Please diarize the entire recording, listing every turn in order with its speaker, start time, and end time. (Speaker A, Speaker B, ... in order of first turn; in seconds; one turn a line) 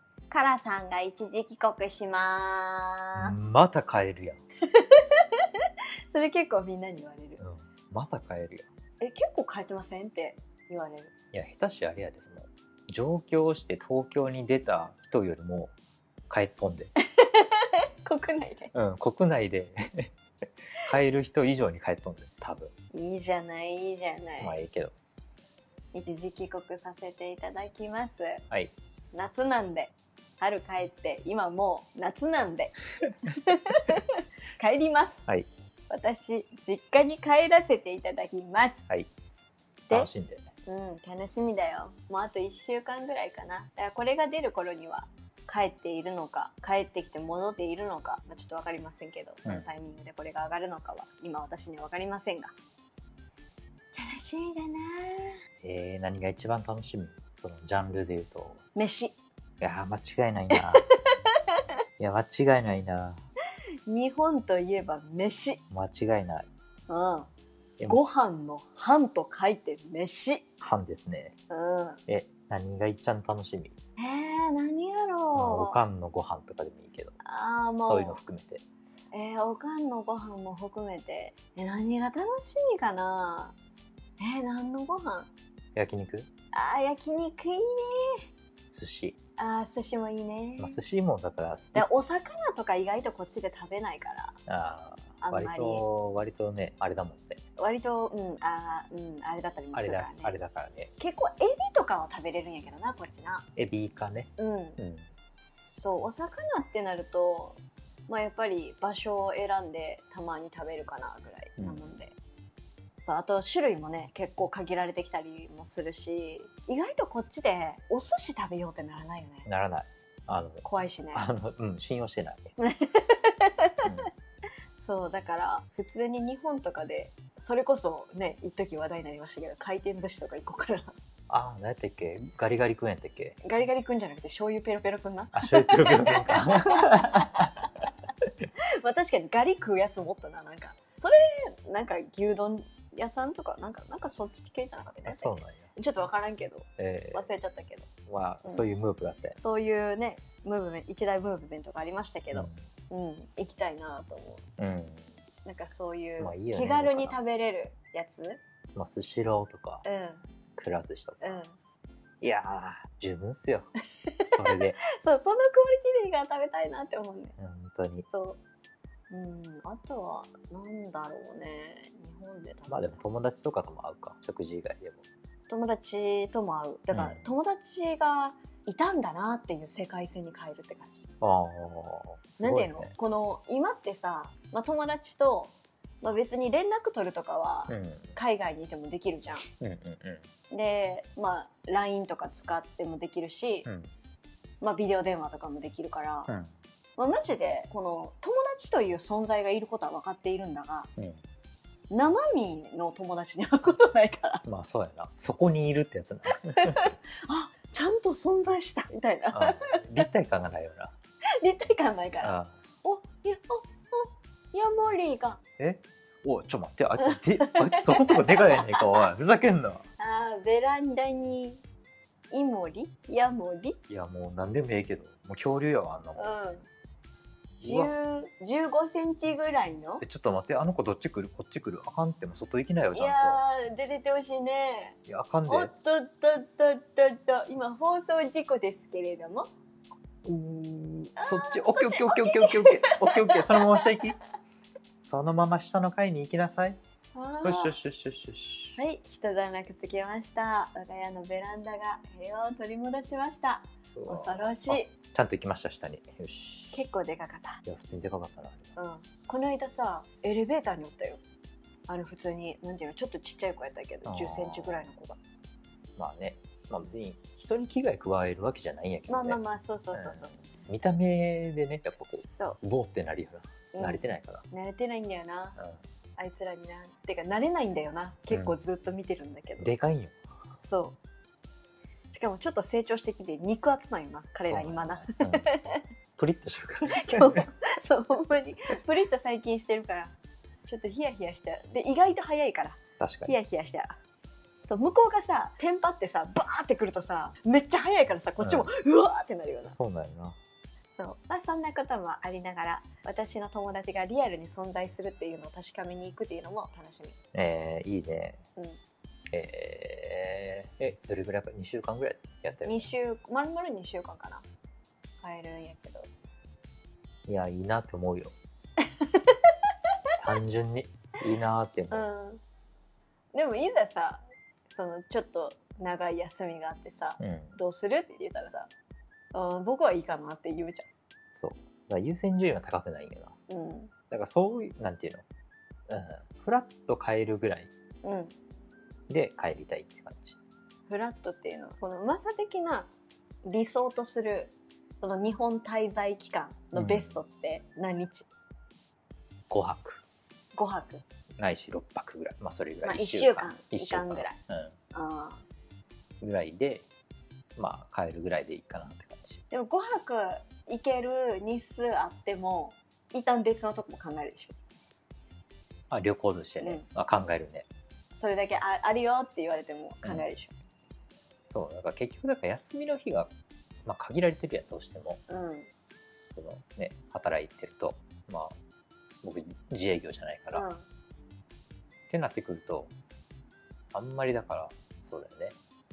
Speaker A: 0.3-3.4
Speaker B: 3.1-4.4
Speaker A: 4.7-7.4
Speaker B: 7.4-8.7
Speaker A: 9.0-11.1
Speaker B: 11.3-15.7
Speaker B: 16.3-16.9
Speaker A: 17.2-18.7
Speaker B: 18.7-20.1
Speaker B: 20.8-22.7
Speaker A: 22.9-24.6
Speaker B: 24.4-24.9
Speaker A: 25.9-28.4
Speaker A: 29.1-32.8
Speaker A: 33.3-35.2
Speaker A: 35.9-38.8
Speaker B: 39.9-40.5
Speaker A: 40.6-52.5
Speaker A: 53.9-55.4
Speaker B: 55.6-58.6
Speaker A: 58.7-59.1
Speaker B: 59.6-60.8
Speaker A: 60.5-61.6
Speaker B: 62.0-63.2
Speaker A: 63.9-65.6
Speaker B: 65.7-66.5
Speaker A: 66.9-67.3
Speaker A: 67.9-70.4
Speaker B: 70.6-71.3
Speaker A: 71.5-72.0
Speaker B: 72.1-73.7
Speaker A: 74.0-75.8
Speaker B: 75.3-77.1
Speaker A: 77.2-78.2
Speaker B: 77.8-78.6
Speaker A: 79.1-83.5
Speaker A: 84.2-85.3
Speaker B: 85.7-86.3
Speaker A: 86.5-88.2
Speaker B: 88.7-89.2
Speaker A: 89.4-90.8
Speaker B: 90.6-91.9
Speaker A: 91.7-94.3
Speaker B: 94.5-97.4
Speaker A: 95.2-95.8
Speaker A: 97.6-100.3
Speaker B: 99.7-100.9
Speaker A: 101.0-103.5
Speaker B: 103.5-105.1
Speaker A: 104.4-104.8
Speaker A: 105.8-112.2
Speaker B: 111.6-111.9
Speaker A: 113.0-119.5
Speaker B: 119.4-122.5
Speaker A: 120.6-121.2
Speaker A: 122.6-123.9
Speaker B: 123.8-124.1
Speaker A: 124.8-130.9
Speaker B: 131.3-133.4
Speaker A: 133.4-137.9
Speaker B: 135.3-137.5
Speaker A: 138.8-147.9
Speaker B: 145.0-145.7
Speaker B: 146.8-147.3
Speaker B: 148.1-149.4
Speaker A: 148.4-148.7
Speaker A: 149.4-154.4
Speaker B: 152.3-152.6
Speaker B: 154.6-155.1
Speaker A: 155.4-158.4
Speaker B: 156.2-157.2
Speaker B: 158.7-159.8
Speaker A: 159.8-160.2
Speaker B: 160.6-161.4
Speaker A: 161.2-161.6
Speaker B: 162.2-163.7
Speaker A: 164.0-167.3
Speaker B: 164.2-164.8
Speaker B: 167.4-168.1
Speaker A: 168.1-168.4
Speaker A: 169.1-173.0
Speaker B: 172.7-175.0
Speaker A: 175.5-181.0
Speaker B: 176.9-177.2
Speaker B: 181.2-182.9
Speaker A: 182.4-189.4
Speaker B: 187.7-188.2
Speaker B: 189.6-190.2
Speaker A: 190.5-193.7
Speaker B: 193.7-193.9
Speaker A: 194.6-196.3
Speaker B: 196.3-196.5
Speaker A: 197.0-200.9
Speaker A: 201.9-204.4
Speaker B: 204.4-206.9
Speaker A: 206.3-209.8
Speaker B: 209.3-210.9
Speaker A: 211.4-215.4
Speaker B: 212.2-212.5
Speaker B: 215.6-219.8
Speaker A: 217.0-219.1
Speaker A: 220.0-221.6
Speaker A: 222.3-223.8
Speaker B: 223.9-226.3
Speaker A: 226.2-226.7
Speaker B: 227.6-227.9
Speaker A: 227.6-230.0
Speaker B: 230.0-233.4
Speaker A: 232.9-239.5
Speaker B: 235.1-235.7
Speaker B: 240.2-244.2
Speaker A: 241.2-244.1
Speaker B: 245.0-246.8
Speaker A: 247.1-247.8
Speaker B: 247.4-248.8
Speaker A: 248.8-254.9
Speaker B: 253.9-256.8
Speaker A: 256.7-257.6
Speaker B: 257.6-258.7
Speaker A: 258.8-261.2
Speaker A: 261.9-265.2
Speaker B: 264.0-264.9
Speaker B: 265.9-269.4
Speaker A: 269.1-270.3
Speaker B: 269.9-274.4
Speaker A: 272.1-272.6
Speaker A: 273.7-275.6
Speaker A: 276.2-279.7
Speaker B: 278.3-278.5
Speaker B: 279.6-280.1
Speaker A: 280.6-280.9
Speaker A: 282.1-285.8
Speaker B: 284.4-285.5
Speaker B: 286.2-287.4
Speaker A: 286.9-290.1
Speaker A: 290.6-293.9
Speaker B: 293.0-293.4
Speaker A: 294.6-299.8
Speaker B: 298.4-298.7
Speaker B: 299.7-300.4
Speaker A: 301.0-307.1
Speaker B: 307.3-308.4
Speaker B: 309.3-312.9
Speaker A: 312.6-314.4
Speaker A: 315.2-316.1
Speaker B: 317.3-318.3
Speaker A: 318.8-319.5
Speaker B: 320.2-322.1
Speaker A: 321.9-322.4
Speaker A: 323.3-328.7
Speaker B: 327.2-327.6
Speaker A: 329.3-330.9
Speaker B: 331.3-333.3
Speaker A: 333.5-333.9
Speaker B: 334.1-335.2
Speaker B: 335.9-337.7
Speaker A: 338.0-338.3
Speaker B: 339.1-340.4
Speaker A: 340.9-342.9
Speaker A: 343.4-348.3
Speaker B: 346.7-347.1
Speaker B: 349.5-350.0
Speaker A: 350.5-351.0
Speaker B: 351.4-354.7
Speaker A: 352.8-354.4
Speaker A: 354.9-355.4
Speaker B: 356.2-356.8
Speaker B: 357.6-359.4
Speaker A: 359.5-364.5
Speaker B: 365.9-367.6
Speaker A: 368.1-370.5
Speaker B: 371.5-373.3
Speaker B: 373.8-375.2
Speaker A: 375.3-375.7
Speaker B: 376.4-378.6
Speaker B: 379.2-380.6
Speaker A: 380.5-380.9
Speaker B: 382.1-382.9
Speaker B: 383.9-385.6